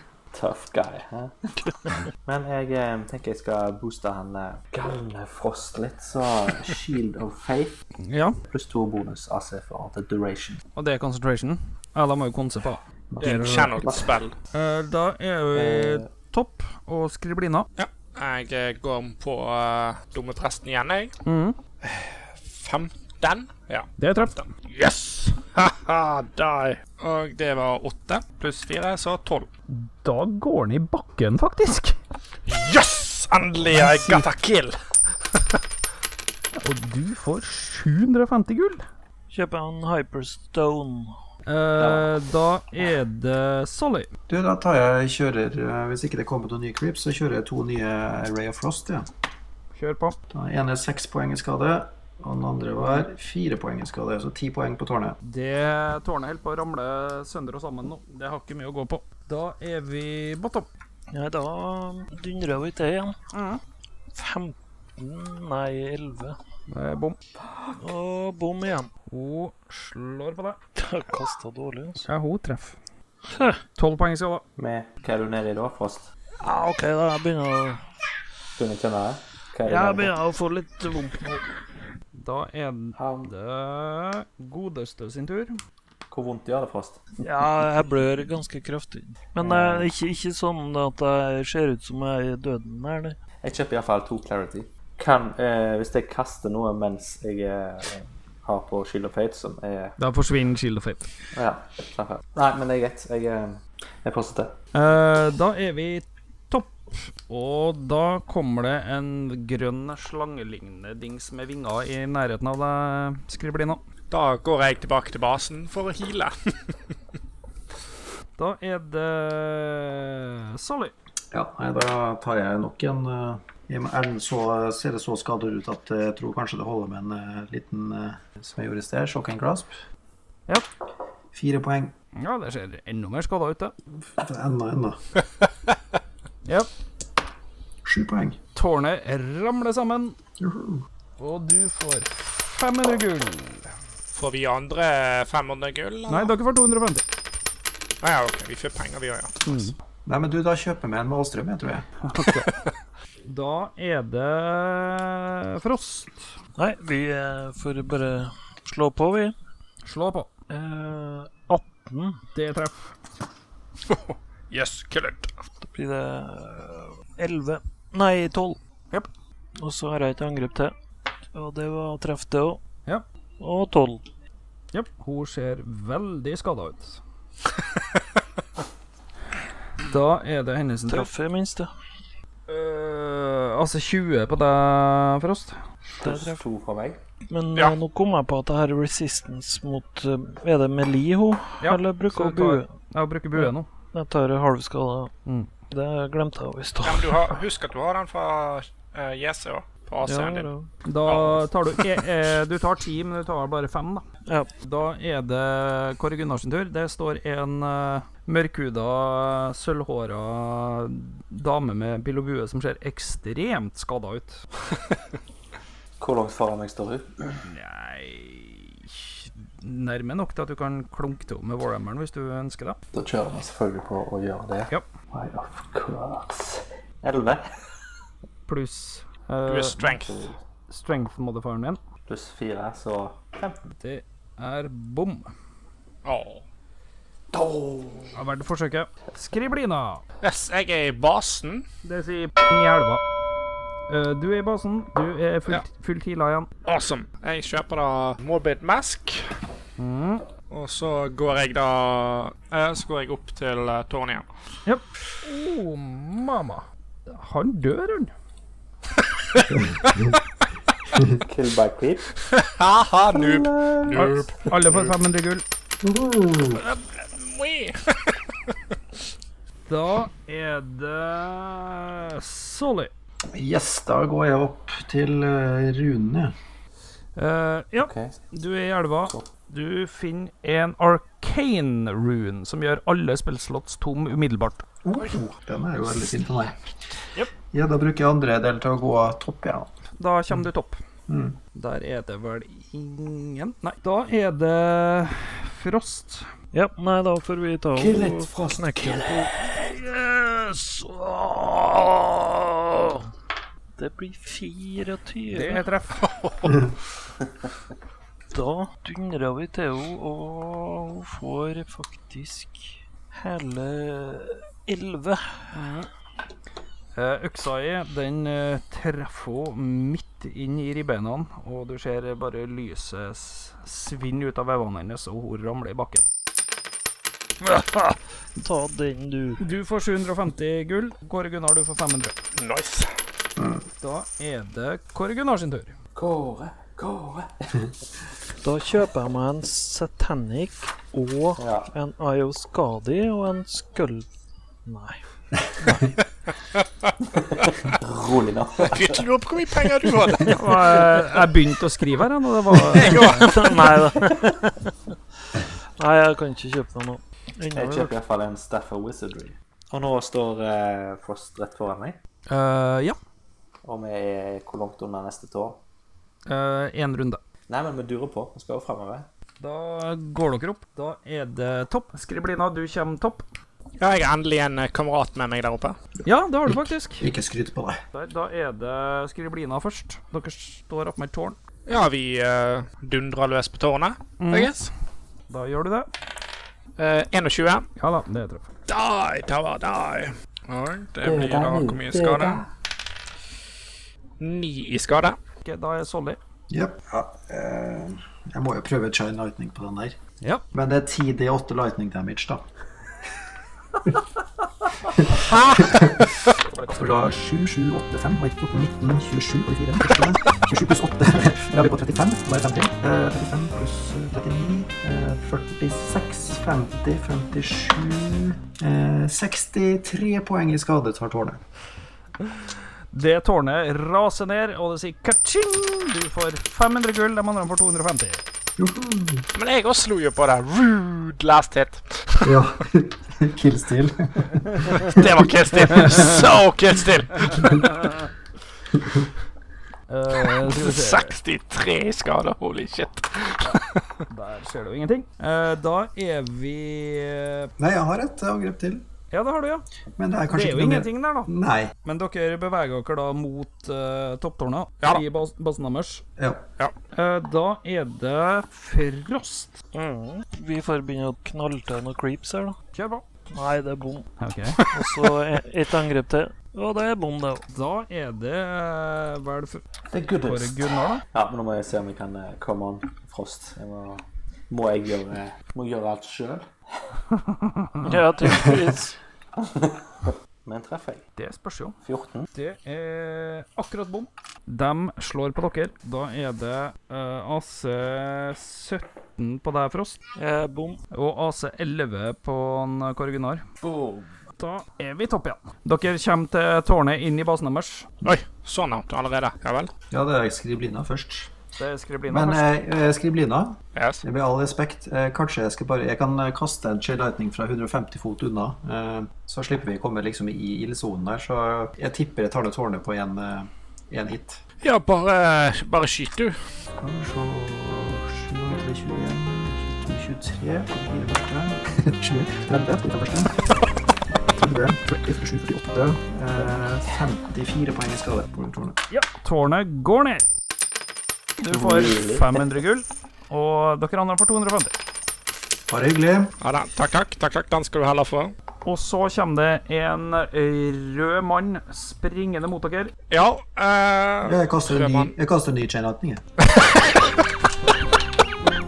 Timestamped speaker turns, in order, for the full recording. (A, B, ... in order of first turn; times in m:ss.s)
0:00.3-0:01.3 A
0:02.2-0:07.8 A
0:08.0-0:08.4 B
0:08.4-0:10.6 A
0:10.8-0:13.6 B
0:13.1-0:14.1 A
0:13.2-0:14.3 C
0:14.5-0:17.7 B
0:15.5-0:16.1 A
0:17.8-0:21.1 C
0:21.2-0:21.6 B
0:21.8-0:29.5 C
0:24.0-0:24.4 B
0:29.7-0:31.9 B
0:32.4-0:34.8 C
0:33.7-0:34.2 B
0:36.6-0:38.8 B
0:39.3-0:41.1 D
0:41.5-0:44.1 B
0:41.8-0:42.1 A
0:44.3-0:49.1 E
0:49.7-0:50.2 B
0:50.3-0:55.2 E
0:55.2-1:00.7 B
1:01.1-1:03.1 D
1:03.3-1:03.6 B
1:04.1-1:06.4 D
1:06.7-1:07.2 B
1:07.7-1:08.9 D
1:09.1-1:10.6 B
1:10.8-1:12.1 D
1:12.0-1:12.8 B
1:13.3-1:13.6 D
1:13.8-1:14.4 B
1:14.6-1:16.1 A
1:16.4-1:17.8 D
1:18.6-1:20.1 A
1:19.6-1:21.4 D
1:22.2-1:25.6 B
1:23.0-1:23.3 A
1:26.1-1:27.1 A
1:27.2-1:33.2 D
1:29.4-1:29.9 A
1:33.4-1:39.9 A
1:40.0-1:41.1 B
1:41.3-1:44.5 A
1:44.7-1:53.8 B
1:54.1-1:56.7 C
1:58.4-2:00.9 B
2:01.3-2:09.7 E
2:11.3-2:11.9 E
2:12.2-2:13.7 B
2:14.1-2:15.0 E
2:17.8-2:18.4 E
2:18.5-2:20.1 B
2:20.4-2:20.8 E
2:21.2-2:23.7 B
2:24.1-2:26.3 C
2:26.1-2:27.0 B
2:28.0-2:29.6 C
2:29.4-2:29.7 B
2:30.0-2:31.9 E
2:32.0-2:32.5 B
2:33.3-2:36.3 B
2:36.6-2:39.3 D
2:39.8-2:40.3 B
2:40.5-2:42.2 D
2:42.3-2:42.8 B
2:43.9-2:45.3 C
2:45.7-2:48.6 D
2:49.6-2:50.7 D
2:51.3-2:52.6 D
2:53.4-2:54.0 D
2:54.7-2:57.0 B
2:59.8-3:01.1 B
3:00.9-3:01.7 D
3:02.5-3:05.6 B
3:06.0-3:07.0 A
3:06.0-3:06.4 D
3:07.3-3:12.7 D
3:11.6-3:13.7 B
3:13.3-3:15.1 D
3:15.2-3:15.5 B
3:15.7-3:17.3 D
3:16.8-3:20.5 C
3:20.0-3:20.7 D
3:20.8-3:24.0 B
3:21.0-3:21.4 C
3:24.6-3:34.4 B
3:36.0-3:37.3 A
3:37.4-3:42.8 B
3:42.9-3:47.4 A
3:48.5-3:49.9 B
3:49.4-3:50.2 C
3:50.0-3:50.4 A
3:50.7-3:51.8 B
3:52.1-3:53.6 A
3:53.8-3:55.3 B
3:56.0-3:56.4 C
3:57.3-3:58.2 A
3:58.1-4:00.0 B
4:00.2-4:01.6 C
4:01.8-4:03.0 B
4:03.9-4:06.5 B
4:06.6-4:09.3 C
4:09.8-4:10.2 B
4:10.5-4:14.3 C
4:14.6-4:18.1 B
4:19.3-4:20.2 C
4:21.1-4:22.0 A
4:22.2-4:24.9 C
4:23.1-4:24.2 A
4:23.9-4:25.4 B
4:25.8-4:26.6 E
4:26.6-4:28.2 C
4:29.7-4:32.9 B
4:33.3-4:36.3 E
4:37.2-4:44.6 B
4:37.8-4:38.1 A
4:44.8-4:46.6 E
4:47.5-4:49.7 E
4:50.0-4:50.8 B
4:51.1-4:51.4 E
4:51.5-4:56.3 B
4:56.5-5:03.1 D
4:57.7-4:59.3 A
5:03.8-5:05.6 D
5:05.3-5:06.0 B
5:06.0-5:06.7 C
5:08.3-5:15.6 D
5:15.5-5:15.9 B
5:16.9-5:26.0 B
5:27.4-5:29.4 D
5:29.4-5:32.1 B
5:32.4-5:32.9 C
5:33.4-5:33.6 E
5:33.8-5:35.7 B
5:35.9-5:37.5 A
5:38.4-5:44.1 D
5:41.4-5:41.7 A
5:44.6-5:45.0 D
5:45.6-5:45.9 D
5:46.6-5:46.9 C
5:47.7-5:49.0 A
5:48.6-5:50.4 C
5:50.3-5:53.2 B
5:52.7-5:54.7 D
5:52.8-5:53.6 C
5:55.8-5:57.9 D
5:57.5-6:02.0 A
6:02.3-6:03.0 B
6:03.6-6:05.6 A
6:06.3-6:07.2 B
6:07.5-6:09.1 A
6:09.4-6:13.2 B
6:13.8-6:15.8 C
6:16.0-6:17.0 B
6:16.5-6:17.8 E
6:17.9-6:21.4 B
6:21.7-6:24.7 C
6:24.2-6:24.5 B
6:25.3-6:25.9 B
6:26.8-6:27.6 C
6:27.8-6:28.4 B
6:28.7-6:32.4 C
6:31.0-6:32.5 A
6:34.2-6:35.2 C
6:35.4-6:36.2 B
6:36.5-6:40.0 E
6:40.5-6:42.4 E
6:45.0-6:46.1 E
6:45.2-6:45.8 C
6:46.7-7:01.4 E
7:02.9-7:08.2 B
7:08.6-7:09.2 E
7:09.3-7:12.3 C
7:12.2-7:15.1 E
7:14.7-7:17.7 C
7:19.9-7:21.1 B
7:20.2-7:23.8 C
7:23.4-7:27.5 B
7:27.6-7:28.8 E
7:29.1-7:29.6 B
7:30.0-7:31.7 E
7:30.3-7:31.3 B
7:31.8-7:36.0 B
7:36.2-7:36.4 E
7:36.9-7:39.6 B
7:39.7-7:42.6 D
7:42.7-7:43.0 B
7:43.3-7:44.1 D
7:44.2-7:44.6 B
7:44.7-7:47.4 D
7:47.5-7:49.6 B
7:49.9-7:56.4 A
7:50.2-7:51.0 B
7:57.8-7:58.9 D
7:59.4-8:01.0 A
8:01.2-8:01.8 B
8:01.8-8:02.3 A
8:02.3-8:10.0 B
8:10.2-8:10.8 D
8:10.9-8:13.4 B
8:13.6-8:14.0 A
8:14.4-8:17.9 B
8:18.0-8:19.7 C
8:19.9-8:21.3 E
8:21.6-8:22.5 B
8:22.1-8:34.4 E
8:23.8-8:24.0 C
8:34.6-8:36.4 C
8:36.8-8:43.5 E
8:44.4-8:48.8 E
8:48.9-8:50.2 B
8:51.4-8:54.7 B
8:51.5-8:52.4 A
8:55.7-8:56.3 E
8:56.4-8:58.3 C
8:58.6-9:02.9 B
9:03.1-9:05.1 C
9:04.2-9:06.2 E
9:06.5-9:07.1 C